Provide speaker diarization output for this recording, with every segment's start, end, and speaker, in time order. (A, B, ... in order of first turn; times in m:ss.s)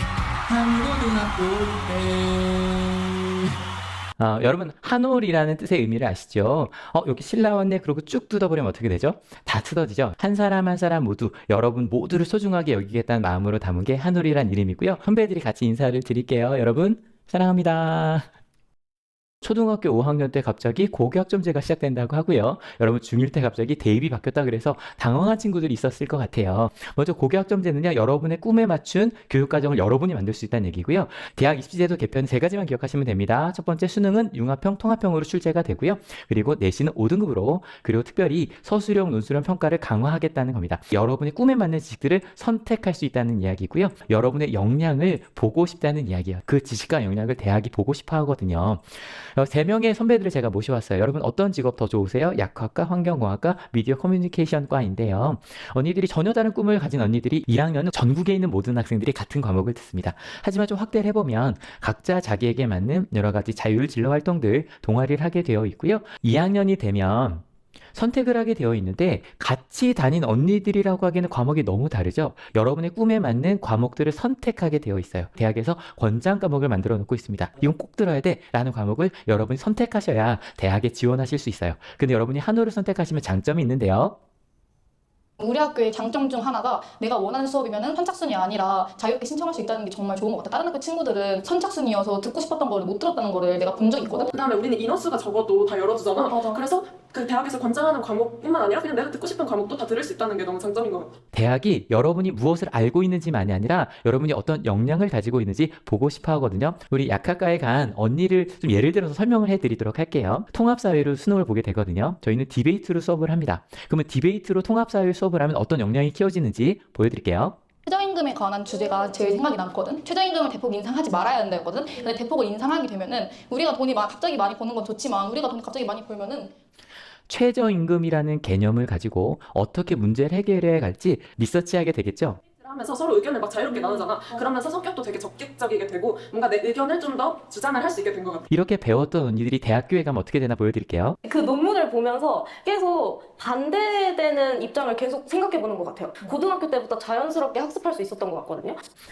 0:00.5-0:02.7 A
0:04.2-0:18.3 B
0:19.4-1:24.2 B
1:25.4-1:34.3 C
1:34.3-1:41.1 D
1:41.3-1:57.6 B
1:57.9-2:06.5 C
2:07.3-2:12.4 B
2:12.6-2:18.5 D
2:18.5-2:21.2 B
2:21.2-2:28.8 E